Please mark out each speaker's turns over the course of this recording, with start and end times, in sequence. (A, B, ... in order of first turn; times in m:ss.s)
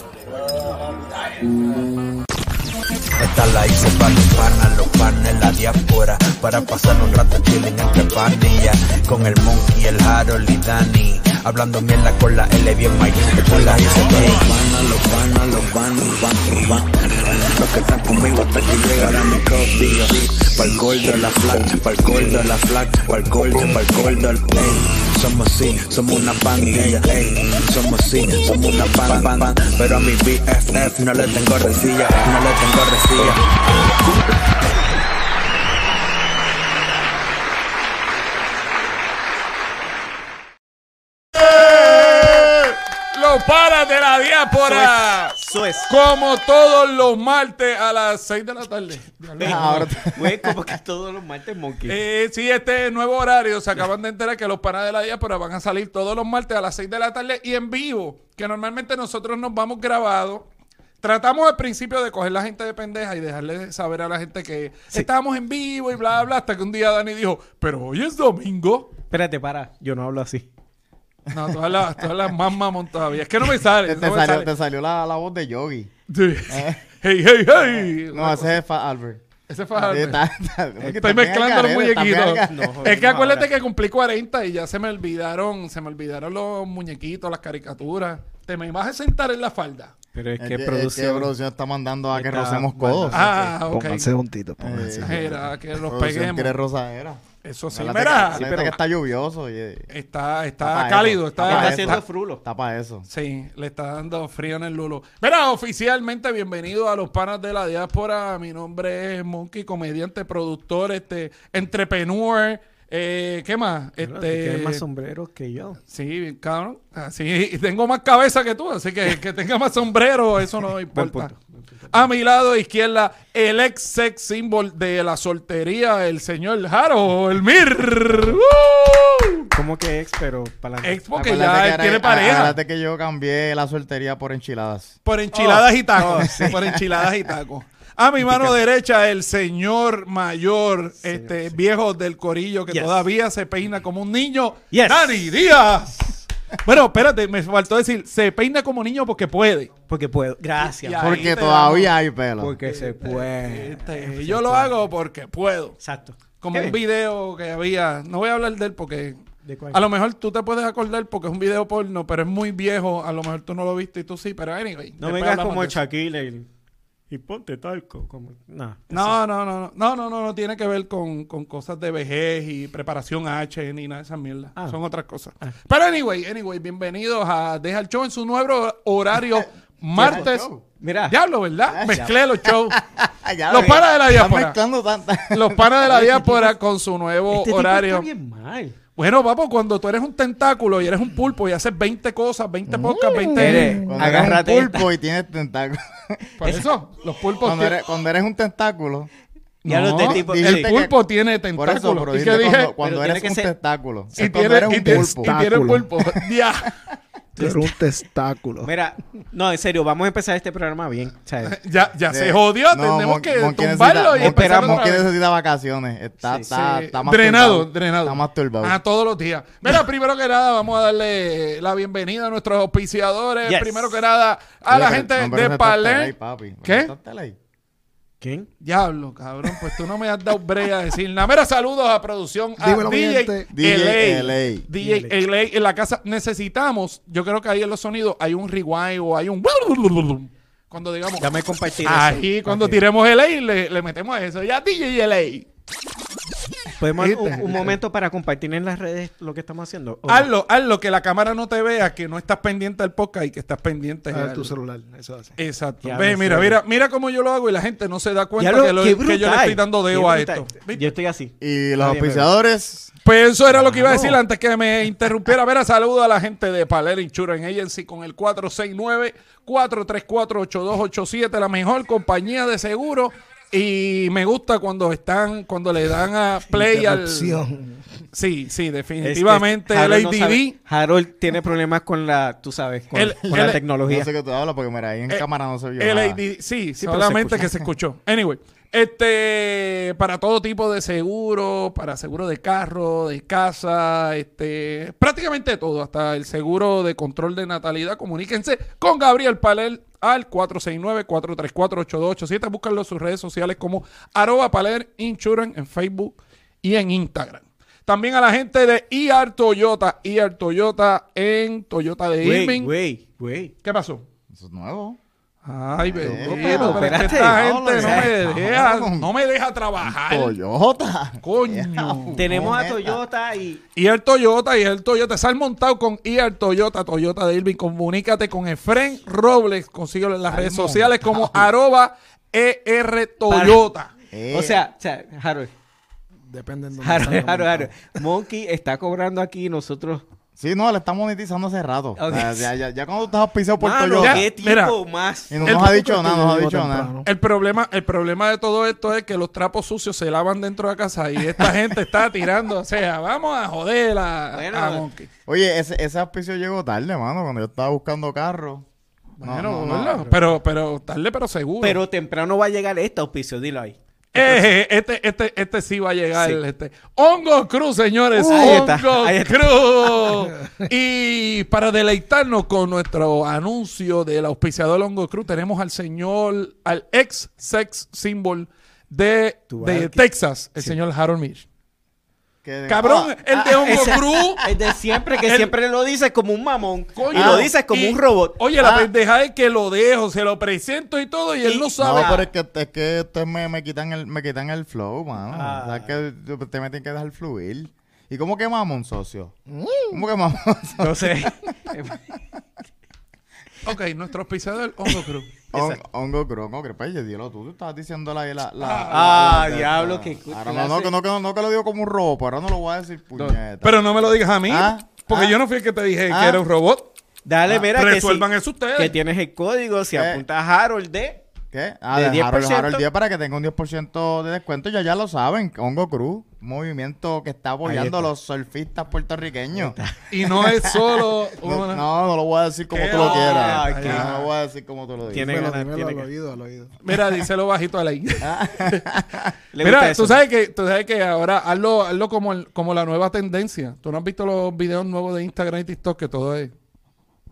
0:03.2-0:33.4 A
0:41.4-0:45.4 B
0:44.7-0:45.9 C
0:45.9-0:49.9 B
0:49.4-0:52.0 C
0:49.4-0:50.6 D
0:51.9-1:00.5 B
1:01.0-1:08.9 B
1:09.1-1:10.5 C
1:11.3-1:14.5 B
1:13.8-1:15.9 D
1:16.1-1:18.6 B
1:16.5-1:16.8 D
1:17.6-1:19.2 D
1:19.5-1:20.2 B
1:19.7-1:22.9 D
1:20.8-1:21.1 C
1:21.0-1:29.9 B
1:22.5-1:23.5 C
1:30.1-1:31.3 C
1:30.4-1:33.3 D
1:32.1-1:33.3 C
1:33.1-1:34.1 B
1:33.6-1:35.4 E
1:34.6-1:39.9 D
1:35.0-1:36.6 B
1:37.4-1:38.5 B
1:38.3-1:38.8 C
1:39.9-1:42.0 B
1:40.6-1:43.1 D
1:41.4-1:42.4 C
1:43.1-1:54.8 B
1:54.0-1:55.8 C
1:55.9-2:01.3 B
2:00.9-2:02.0 C
2:01.9-2:09.5 B
2:08.1-2:08.4 C
2:09.5-2:11.0 C
2:10.8-2:12.6 B
2:11.2-2:15.0 D
2:15.0-2:29.7 B
2:15.3-2:16.7 C
2:16.2-2:16.8 D
2:18.2-2:18.6 C
2:21.0-2:21.6 C
2:22.7-2:23.0 C
2:24.7-2:25.3 C
2:29.9-2:31.4 C
2:30.6-2:31.9 B
2:31.0-2:32.6 D
2:32.4-2:34.8 C
2:32.6-2:35.8 B
2:35.8-2:36.8 C
2:36.4-2:39.2 B
2:39.4-2:39.8 C
2:39.7-2:45.8 B
2:45.0-2:46.5 C
2:47.1-2:49.2 C
2:48.9-3:00.5 B
2:59.9-3:00.6 D
3:00.0-3:00.2 C
3:00.8-3:01.2 C
3:01.1-3:02.8 B
3:01.7-3:05.8 D
3:03.5-3:04.6 B
3:03.5-3:03.8 C
3:05.3-3:08.1 B
3:06.1-3:06.5 C
3:07.3-3:08.8 C
3:09.0-3:13.8 B
3:12.7-3:14.2 E
3:13.3-3:14.9 C
3:13.4-3:16.2 D
3:16.4-3:17.8 B
3:17.4-3:19.1 D
3:19.6-3:20.7 C
3:19.6-3:22.8 B
3:20.0-3:20.9 D
3:21.6-3:25.4 D
3:22.8-3:23.5 C
3:24.2-3:26.8 B
3:24.9-3:25.9 E
3:27.4-3:27.7 C
3:27.4-3:28.7 E
3:28.6-3:31.6 C
3:31.4-3:35.0 B
3:32.1-3:38.8 D
3:34.2-3:35.0 C
3:36.5-3:46.9 B
3:43.4-3:44.0 C
3:44.7-3:47.4 D
3:48.2-3:48.5 C
3:48.6-4:01.3 B
3:52.6-3:53.5 E
3:53.5-3:54.7 D
3:54.8-3:55.1 C
4:01.2-4:02.8 C
4:01.8-4:05.5 B
4:06.8-4:10.3 C
4:07.0-4:07.8 B
4:10.1-4:14.5 B
4:14.1-4:15.4 E
4:15.4-4:20.9 B
4:15.8-4:16.6 C
4:18.4-4:22.3 C
4:21.4-4:22.9 D
4:23.0-4:37.4 B
4:23.5-4:24.2 C
4:36.5-4:37.9 E
4:38.1-4:40.6 B
4:39.0-4:44.1 C
4:42.9-4:43.6 B
4:43.3-4:46.2 D
4:45.8-5:12.7 B
4:46.8-4:47.7 C
5:12.2-5:13.5 C
5:13.6-5:14.0 B
5:14.3-5:15.0 D
5:15.4-5:20.4 B
5:15.9-5:19.1 D
5:16.0-5:18.1 C
5:19.8-5:23.0 D
5:21.2-5:22.2 B
5:22.2-5:23.6 C
5:23.8-5:33.9 B
5:30.3-5:31.4 C
5:33.3-5:33.6 C
5:34.1-5:34.6 D
5:34.3-5:35.5 C
5:36.3-5:37.9 E
5:36.8-5:40.0 C
5:40.4-5:44.2 D
5:42.0-5:42.5 C
5:43.6-5:46.9 C
5:44.0-5:44.8 B
5:45.3-5:46.9 D
5:45.5-5:47.0 E
5:47.0-5:55.1 B
5:54.3-5:54.9 C
5:55.3-5:58.7 D
5:59.2-6:01.8 B
5:59.2-6:00.1 D
6:01.6-6:04.5 C
6:04.1-6:21.5 B
6:08.1-6:10.3 C
6:19.5-6:20.0 C
6:22.4-6:24.4 D
6:22.7-6:24.4 B
6:23.6-6:28.4 C
6:25.2-6:25.5 B
6:27.0-6:32.2 B
6:27.1-6:27.5 D
6:28.6-6:28.9 D
6:31.4-6:32.3 C
6:31.8-6:39.3 D
6:35.3-6:36.0 C
6:39.5-6:40.0 E
6:39.9-6:41.7 D
6:40.8-6:42.1 C
6:43.6-6:45.3 B
6:45.5-6:45.8 C
6:45.5-6:55.4 D
6:48.6-6:49.3 B
6:48.9-6:50.9 C
6:53.6-6:56.9 B
6:56.1-6:56.4 D
6:57.2-7:01.2 C
6:57.5-6:59.0 B
7:00.0-7:00.2 D
7:01.5-7:15.5 D
7:01.9-7:02.8 C
7:07.6-7:08.1 C
7:09.5-7:10.0 C
7:10.1-7:11.8 B
7:12.7-7:14.3 B
7:12.9-7:14.1 C
7:15.1-7:16.1 C
7:15.3-7:16.7 E
7:16.8-7:19.0 B
7:18.2-7:19.3 D
7:19.5-7:20.2 C
7:19.6-7:26.5 B